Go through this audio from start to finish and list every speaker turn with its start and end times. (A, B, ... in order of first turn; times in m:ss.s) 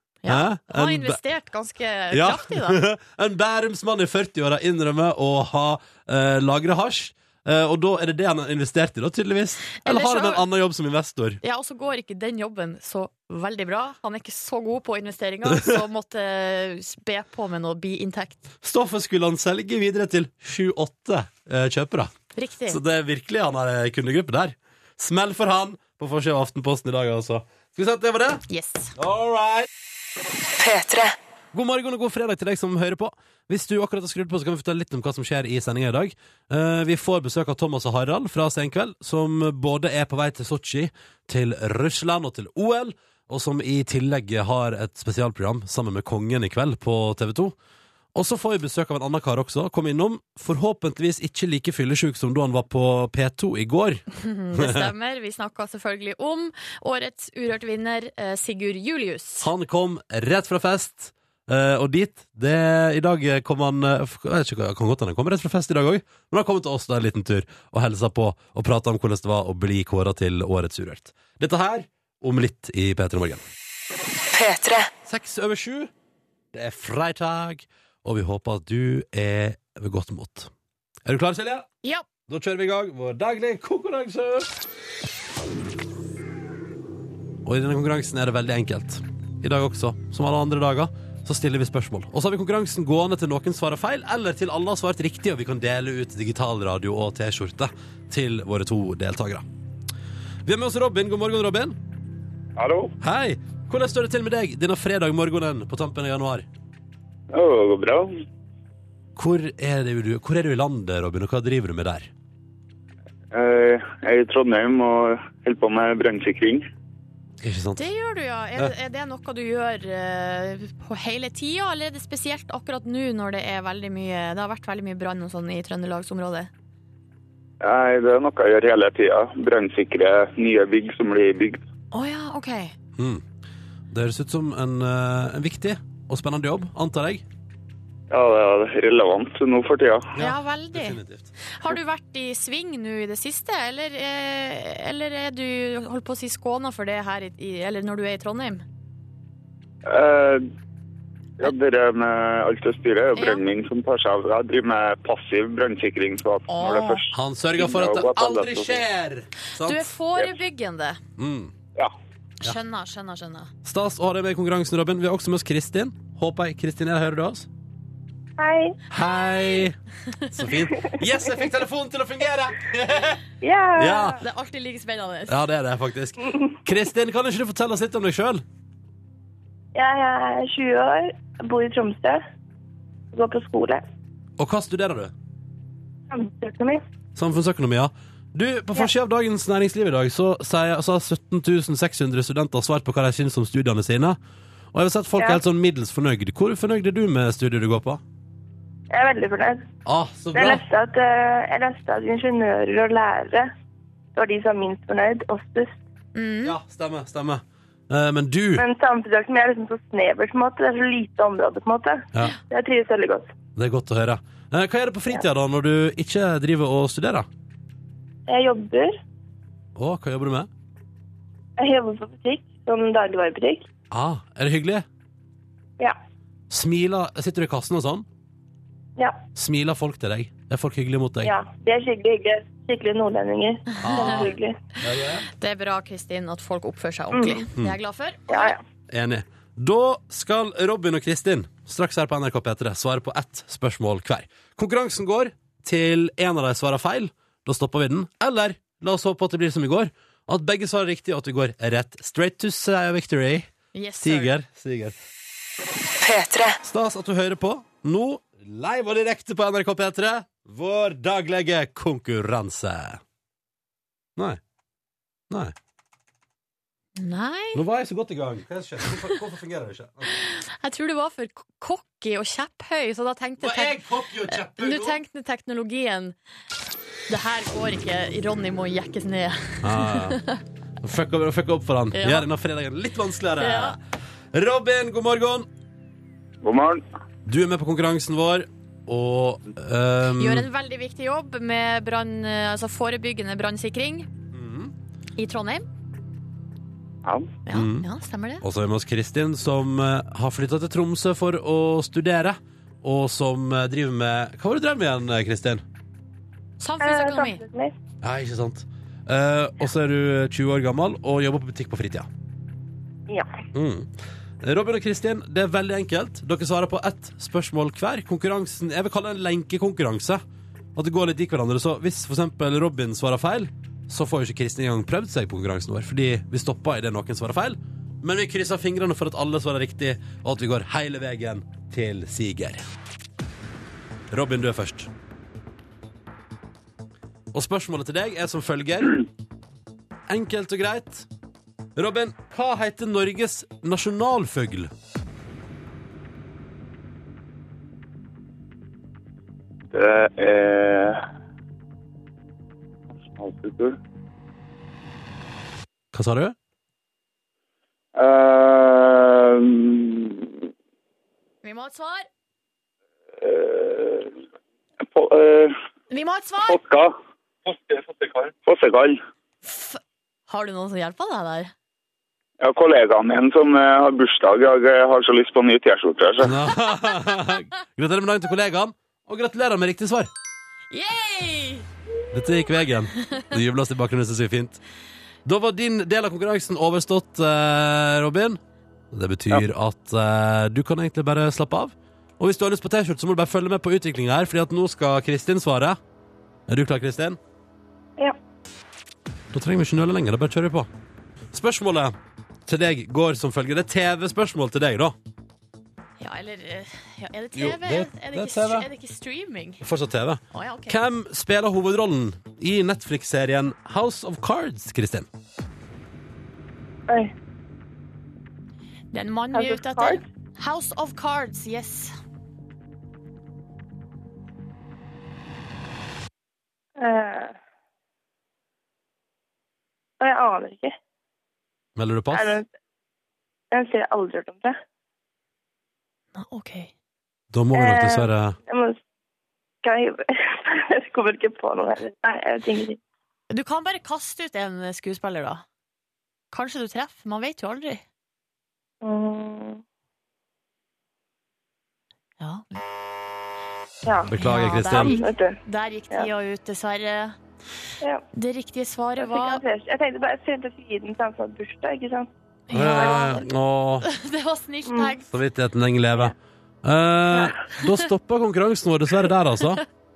0:00.2-0:02.8 A
0:00.3-0:01.2 B
0:02.1-0:11.4 B
0:09.8-0:10.4 A
0:11.4-0:18.4 A
0:15.5-0:15.8 B
0:18.6-0:22.1 B
0:22.4-0:22.8 A
0:22.6-0:28.4 B
0:28.5-0:28.9 A
0:29.0-0:29.7 B
0:31.5-0:47.6 B
0:48.1-0:54.9 B
0:54.1-0:59.5 A
0:59.4-1:13.4 B
1:15.0-1:15.9 B
1:16.5-1:20.5 B
1:21.0-1:21.7 B
1:22.3-1:24.5 B
1:27.4-1:39.4 B
1:40.4-1:41.8 B
1:42.6-1:42.9 C
1:43.0-1:46.4 B
1:47.3-1:48.2 C
1:49.2-1:52.1 B
1:53.3-1:56.6 C
1:57.4-1:57.8 B
1:57.8-2:06.5 A
2:07.6-2:11.6 C
2:11.9-2:12.7 A
2:13.0-2:13.2 B
2:13.9-2:17.2 B
2:18.1-2:20.1 C
2:20.1-2:21.3 B
2:20.2-2:28.6 A
2:29.8-2:30.4 C
2:31.4-2:38.8 C
2:33.1-2:33.4 A
2:36.5-2:37.0 A
2:37.1-2:39.9 B
2:39.6-2:41.0 A
2:41.2-2:41.5 B
2:42.4-2:43.5 A
2:43.6-2:47.5 B
2:48.4-2:48.8 D
2:48.9-2:49.8 B
2:49.0-2:49.6 A
2:50.3-2:53.2 B
2:53.4-2:54.2 D
2:53.8-2:54.2 B
2:54.2-2:55.3 A
2:55.3-2:58.4 B
2:59.7-3:02.2 D
3:03.1-3:03.8 D
3:04.4-3:05.1 B
3:06.1-3:06.8 D
3:07.2-3:14.2 B
3:14.7-3:18.0 B
3:18.9-3:19.6 D
3:19.8-3:20.6 B
3:20.3-3:23.5 D
3:24.1-3:25.8 D
3:26.1-3:26.6 A
3:26.4-3:28.6 B
3:28.6-3:33.3 D
3:33.6-3:37.3 B
3:38.3-3:38.9 D
3:39.8-3:40.5 B
3:41.6-3:43.7 D
3:43.9-3:44.8 B
3:46.5-3:48.0 B
3:49.3-3:51.3 B
3:51.2-3:54.6 D
3:53.8-3:55.3 B
3:53.9-3:54.3 A
3:55.4-3:58.5 A
3:57.1-3:57.4 D
3:58.3-3:58.6 D
3:58.9-4:15.0 B
4:13.7-4:14.3 A
4:16.6-4:23.0 B
4:27.0-4:27.6 A
4:27.5-4:30.1 B
4:30.1-4:36.1 A
4:33.4-4:35.0 B
4:37.1-4:40.4 A
4:39.6-4:40.2 B
4:40.8-4:43.8 B
4:41.9-4:42.3 A
4:43.4-4:43.8 A
4:44.3-4:45.5 B
4:46.4-4:46.8 C
4:47.2-4:50.5 B
4:50.2-4:54.1 A
4:54.3-4:54.7 B
4:55.2-4:55.6 A
4:57.0-4:57.3 C
4:57.4-4:58.4 A
4:57.5-4:57.9 B
4:58.4-5:05.6 B
5:06.6-5:07.4 A
5:06.8-5:07.7 D
5:08.0-5:12.1 B
5:13.5-5:13.9 B
5:14.4-5:20.2 B
5:20.7-5:32.6 B
5:34.1-5:34.9 B
5:37.3-5:39.0 B
5:40.1-5:41.1 B
5:41.8-5:44.7 B
5:49.7-5:51.0 C
5:53.0-5:53.8 C
5:55.9-5:56.3 B
5:58.0-6:00.4 C
6:01.4-6:02.1 A
6:03.2-6:04.2 C
6:04.9-6:05.5 C
6:05.9-6:06.6 A
6:06.5-6:07.0 C
6:07.5-6:09.0 C
6:09.4-6:11.5 A
6:12.4-6:16.4 C
6:16.2-6:20.1 B
6:20.7-6:21.7 A
6:22.1-6:24.6 B
6:25.2-6:28.4 B
6:28.9-6:35.8 B
6:36.5-6:37.2 B
6:39.3-6:40.7 B
6:41.3-6:45.0 B
6:46.0-6:49.6 A
6:47.3-6:48.7 B
6:49.6-6:55.1 B
6:50.3-6:50.8 A
6:58.9-7:01.9 A
6:59.3-7:00.0 D
7:06.8-7:07.4 D
7:10.0-7:10.7 D
7:11.8-7:12.4 B
7:12.1-7:12.5 D
7:13.5-7:14.6 D
7:16.1-7:16.7 A
7:17.3-7:18.4 B
7:17.5-7:18.8 D
7:19.6-7:22.8 D
7:23.3-7:25.4 A
7:26.3-7:27.8 A
7:28.8-7:29.6 D
7:32.2-7:32.5 A
7:33.8-7:34.1 D
7:34.0-7:34.9 B
7:34.2-7:37.2 A
7:34.6-7:35.4 D
7:38.1-7:39.4 A
7:39.0-7:42.1 D
7:42.5-7:43.2 A
7:42.5-7:43.9 B
7:42.6-7:43.2 D
7:43.8-7:45.1 A
7:45.1-7:49.6 B